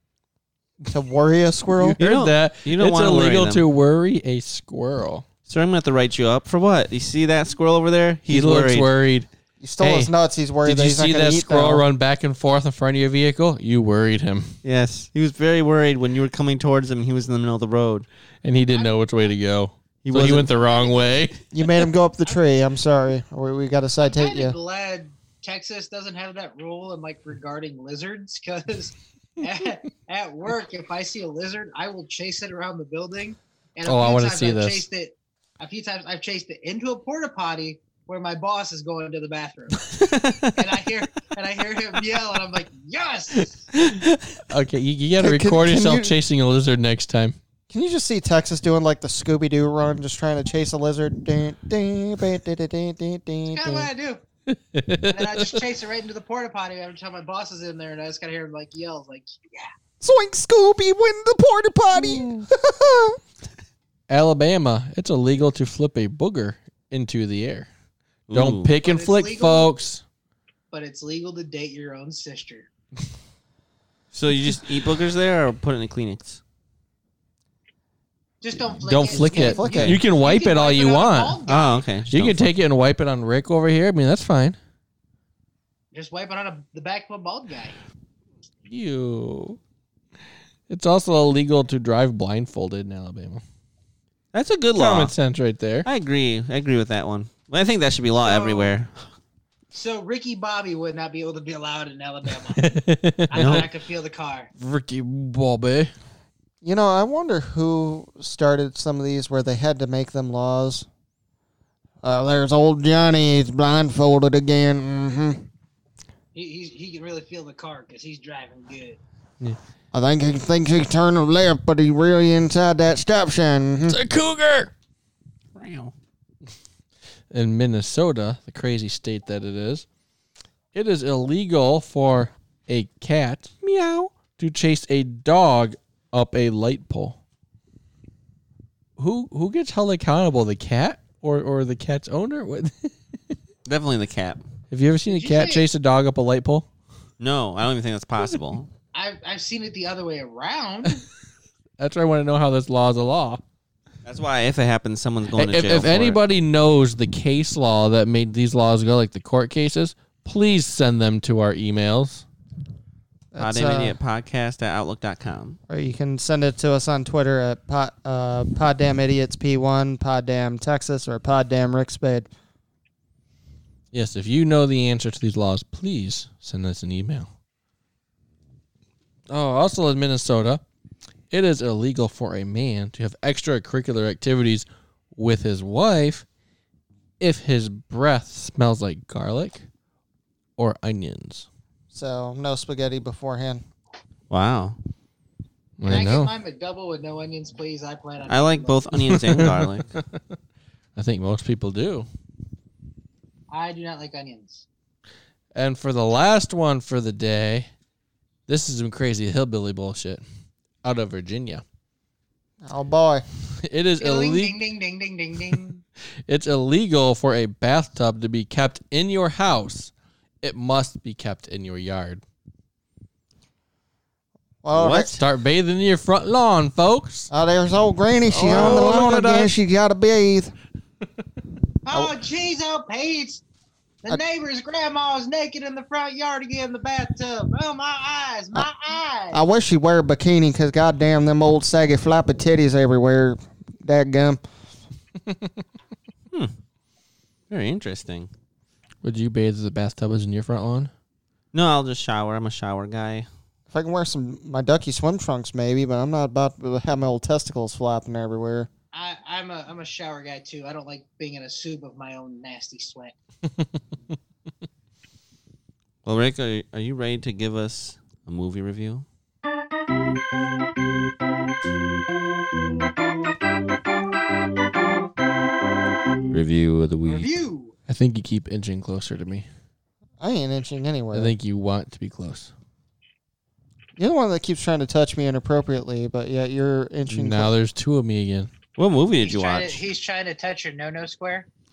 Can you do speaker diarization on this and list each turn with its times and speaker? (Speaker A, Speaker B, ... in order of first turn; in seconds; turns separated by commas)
Speaker A: 0.9-2.0, Speaker B: 1.7-5.2, Speaker C: 2.0-3.6, Speaker C: 5.5-8.9, Speaker B: 8.3-9.3, Speaker A: 9.6-11.8, Speaker B: 9.8-10.1, Speaker B: 10.6-14.6, Speaker C: 14.6-18.1, Speaker B: 18.4-21.4, Speaker D: 18.7-18.9, Speaker C: 20.0-20.5, Speaker D: 20.6-21.2, Speaker A: 21.5-24.6, Speaker D: 24.0-39.9, Speaker B: 33.9-34.9, Speaker C: 40.0-40.5, Speaker D: 40.5-43.7, Speaker B: 44.4-47.4, Speaker A: 45.2-46.2, Speaker A: 47.7-53.9, Speaker D: 53.5-54.2, Speaker B: 54.5-55.5, Speaker D: 55.1-59.7, Speaker A: 60.0-63.2, Speaker B: 62.0-62.5, Speaker B: 64.1-67.7, Speaker C: 68.3-68.7, Speaker B: 68.3-70.0, Speaker D: 68.8-69.7, Speaker D: 70.7-72.7, Speaker C: 74.1-76.4, Speaker D: 78.4-81.8, Speaker B: 78.8-81.4, Speaker A: 79.1-80.0, Speaker C: 81.5-82.5, Speaker B: 82.1-84.6, Speaker D: 85.9-87.8, Speaker B: 88.7-89.6, Speaker B: 90.7-93.4, Speaker C: 94.3-95.1, Speaker B: 94.7-95.9, Speaker C: 95.8-99.0, Speaker D: 98.2-98.7, Speaker D: 99.7-102.7, Speaker B: 102.5-103.7, Speaker D: 103.3-104.5, Speaker C: 103.3-103.7, Speaker B: 104.6-105.9, Speaker A: 106.6-110.9, Speaker A: 112.0-115.5, Speaker D: 116.3-119.0, Speaker A: 119.9-124.0, Speaker B: 123.9-124.7, Speaker C: 125.5-125.9, Speaker B: 127.3-129.8, Speaker B: 130.7-137.2, Speaker B: 139.0-142.9, Speaker C: 143.7-144.4, Speaker B: 144.7-146.7, Speaker D: 145.1-145.7, Speaker C: 147.2-148.7, Speaker D: 148.9-151.0, Speaker B: 151.8-153.4, Speaker C: 154.0-156.2, Speaker B: 155.3-162.2, Speaker A: 163.3-163.9, Speaker C: 163.4-165.6, Speaker A: 165.7-172.3, Speaker B: 173.9-177.3, Speaker B: 179.3-180.6, Speaker B: 181.3-186.2, Speaker B: 187.2-189.7, Speaker B: 190.6-191.4, Speaker A: 191.9-193.6, Speaker C: 194.3-194.8, Speaker B: 195.8-196.3, Speaker D: 195.8-198.9, Speaker C: 198.3-199.9, Speaker B: 199.0-200.2, Speaker B: 200.9-202.1, Speaker D: 203.5-204.6, Speaker B: 205.5-207.7, Speaker B: 208.5-210.2, Speaker B: 210.8-211.6, Speaker A: 212.6-213.2, Speaker B: 213.6-214.6, Speaker D: 214.0-215.8, Speaker B: 216.3-222.2, Speaker A: 224.6-225.2, Speaker C: 224.7-225.2, Speaker B: 225.1-227.3, Speaker A: 227.3-230.5, Speaker B: 228.3-229.5, Speaker D: 231.8-233.4, Speaker D: 234.0-239.4, Speaker A: 239.3-244.4, Speaker C: 247.5-248.3, Speaker B: 249.0-250.9, Speaker C: 251.5-253.3, Speaker A: 253.7-258.7, Speaker D: 258.9-263.1, Speaker C: 266.0-269.1, Speaker C: 276.3-277.2, Speaker D: 277.0-277.7, Speaker B: 277.9-279.4, Speaker A: 280.2-281.3, Speaker B: 281.1-282.5, Speaker A: 284.0-287.5, Speaker B: 287.1-288.5, Speaker C: 288.8-289.8, Speaker D: 289.2-291.5